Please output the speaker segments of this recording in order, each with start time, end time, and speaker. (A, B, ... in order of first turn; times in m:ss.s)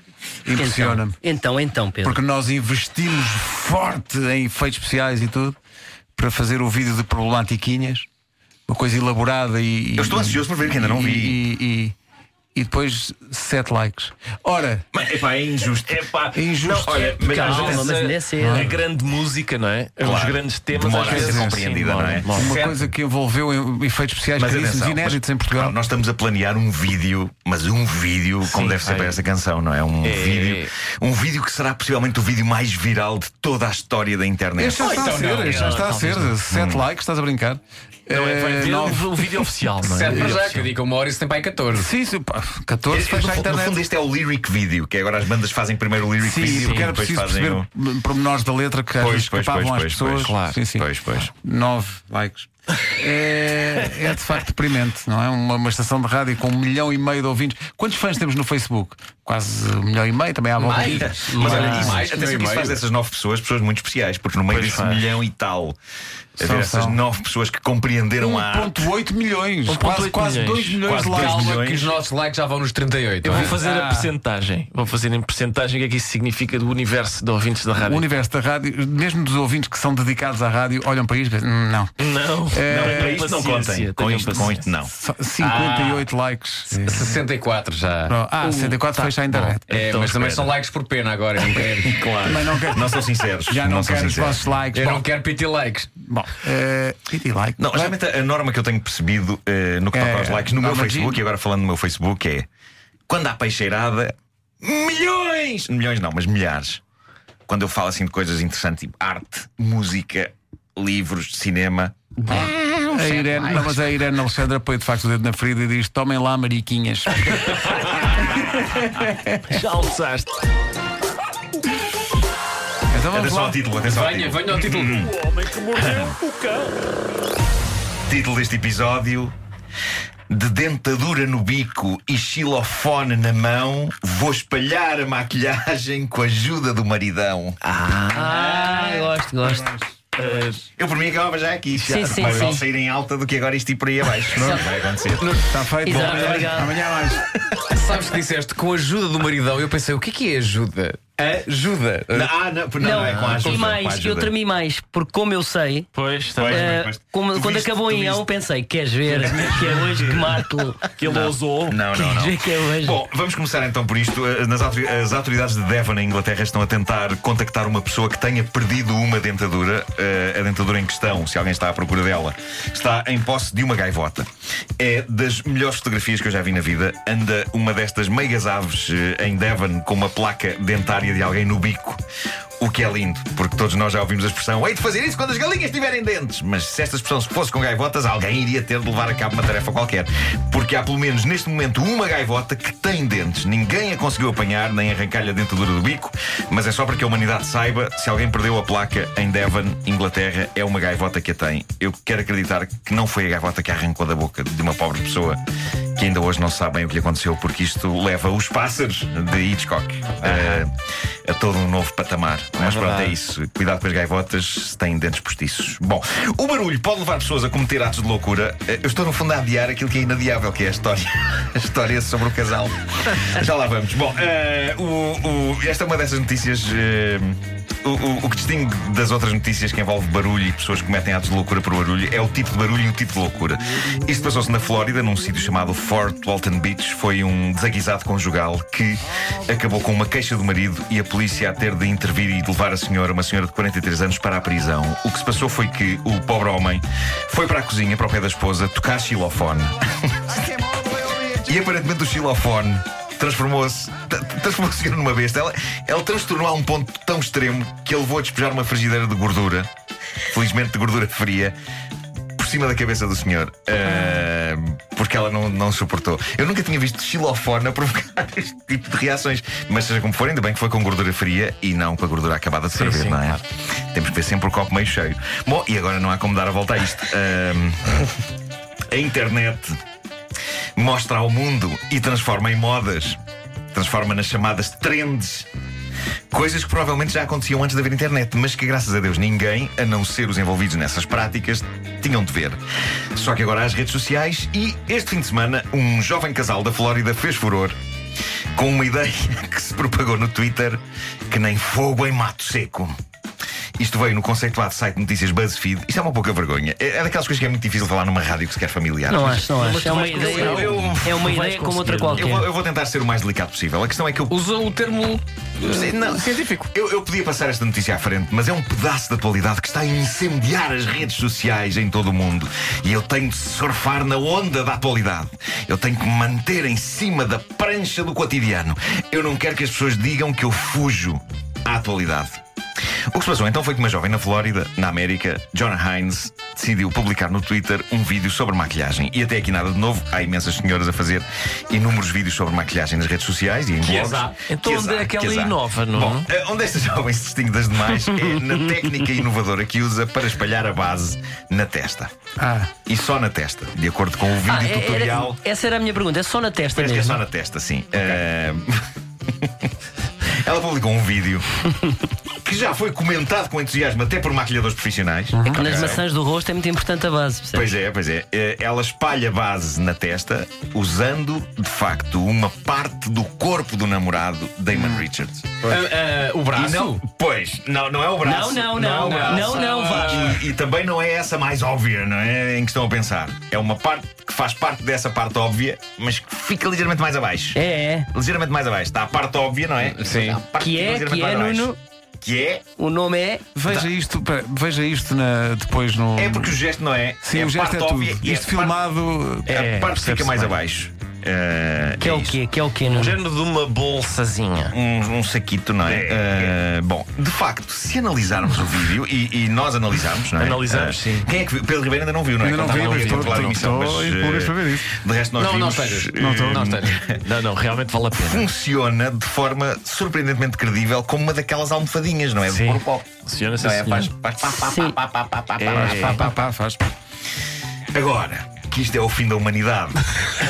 0:00.4-0:01.2 A
0:00.5-0:02.2 B
0:02.0-0:05.6 A
0:06.1-0:08.1 A
0:08.7-0:12.0 A
0:10.0-0:11.4 C
0:12.5-0:14.8 A
0:14.9-0:16.1 C
0:15.9-0:22.6 D
0:16.3-0:17.1 A
0:16.8-0:17.9 C
0:17.1-0:18.7 B
0:18.4-0:18.8 A
0:20.0-0:22.9 C
0:21.0-0:21.6 A
0:22.3-0:25.8 A
0:24.4-0:34.8 C
0:28.4-0:29.2 D
0:30.0-0:30.7 D
0:34.6-0:39.2 A
0:34.7-0:35.8 E
0:35.3-0:36.4 D
0:36.5-0:36.8 C
0:38.1-0:40.7 D
0:39.8-0:41.9 E
0:40.1-0:40.4 A
0:41.7-0:43.8 A
0:42.9-0:47.7 C
0:46.2-1:02.0 A
0:46.4-0:46.9 D
0:49.0-0:51.3 C
1:00.6-1:02.8 E
1:01.0-1:05.8 C
1:01.4-1:01.9 B
1:04.5-1:05.2 D
1:06.4-1:08.9 C
1:06.4-1:07.0 A
1:08.2-1:11.6 A
1:09.7-1:11.0 D
1:10.9-1:11.9 C
1:11.0-1:13.6 E
1:13.2-1:18.1 D
1:13.2-1:14.1 A
1:17.8-1:21.9 A
1:22.0-1:24.7 D
1:22.5-1:23.2 A
1:22.7-1:24.9 C
1:24.9-1:27.2 A
1:25.4-1:26.1 E
1:26.7-1:28.2 E
1:28.1-1:29.6 A
1:28.4-1:30.6 D
1:29.7-1:32.0 E
1:31.8-1:34.4 C
1:32.2-1:35.0 A
1:34.7-1:35.9 E
1:36.0-1:37.9 A
1:37.6-1:42.5 C
1:39.9-1:41.2 A
1:43.1-1:46.8 C
1:47.5-1:53.6 C
1:52.3-1:57.6 A
1:53.2-1:53.6 B
1:57.4-1:58.8 D
1:59.4-2:00.3 D
2:02.9-2:03.6 A
2:03.1-2:05.1 C
2:03.8-2:05.0 E
2:04.9-2:06.8 D
2:05.8-2:06.1 C
2:08.1-2:09.3 C
2:10.3-2:17.6 C
2:17.6-2:18.5 D
2:18.1-2:19.7 B
2:18.4-2:20.3 A
2:20.2-2:20.6 D
2:20.7-2:25.2 C
2:21.8-2:22.6 D
2:21.8-2:22.6 B
2:24.3-2:24.6 A
2:25.2-2:27.2 A
2:25.8-2:26.8 B
2:27.6-2:32.3 E
2:32.1-2:34.3 C
2:32.8-2:35.9 B
2:32.9-2:33.7 E
2:35.9-2:36.8 D
2:36.4-2:38.2 C
2:36.4-2:40.9 B
2:39.1-2:40.0 D
2:40.9-2:41.8 D
2:41.0-2:54.3 C
2:41.9-2:43.0 B
2:54.8-3:02.0 C
3:02.6-3:25.4 C
3:26.0-3:30.7 C
3:30.2-3:30.6 D
3:31.2-4:09.8 C
3:32.6-3:33.1 D
4:10.3-4:11.4 A
4:11.4-4:19.7 C
4:20.2-4:21.6 C
4:22.4-4:38.1 C
4:32.7-4:33.4 D
4:38.9-4:39.8 C
4:40.8-4:43.2 C
4:43.7-4:45.5 C
4:46.3-4:52.6 C
4:53.1-4:57.8 C
4:58.6-5:02.9 C
5:03.8-5:09.5 C
5:09.1-5:12.5 B
5:09.6-5:12.4 D
5:09.9-5:11.0 E
5:10.1-5:11.3 C
5:12.2-5:14.4 C
5:14.3-5:16.7 E
5:15.6-5:32.4 C
5:33.1-5:52.1 C
5:43.8-5:46.3 D
5:48.0-5:49.0 B
5:52.4-5:52.7 A
5:52.9-5:55.4 C
5:54.4-5:57.2 B
5:56.7-5:58.8 C
5:59.4-5:59.7 C
6:00.3-6:01.4 C
6:02.4-6:06.0 C
6:05.3-6:05.9 A
6:05.5-6:07.7 B
6:07.5-6:15.7 C
6:14.7-6:15.0 A
6:15.6-6:17.0 E
6:16.5-6:27.6 C
6:18.2-6:20.4 B
6:19.0-6:20.4 E
6:27.6-6:28.1 B
6:28.1-6:32.6 C
6:29.8-6:30.4 E
6:30.6-6:31.8 B
6:32.8-6:33.4 B
6:33.6-6:36.6 A
6:36.2-6:38.8 C
6:37.2-6:40.5 A
6:39.5-6:40.4 D
6:39.5-6:42.4 C
6:42.0-6:43.2 B
6:42.8-6:44.8 D
6:44.7-6:57.2 C
6:45.8-6:46.6 D
6:50.3-6:51.3 D
6:52.4-6:55.0 A
6:52.6-6:53.6 D
6:55.4-6:57.1 E
6:56.2-6:56.8 A
6:57.2-6:58.5 D
6:58.1-7:06.3 C
7:02.4-7:04.1 D
7:04.6-7:04.9 B
7:05.6-7:06.3 D
7:05.7-7:06.8 A
7:07.9-7:10.0 C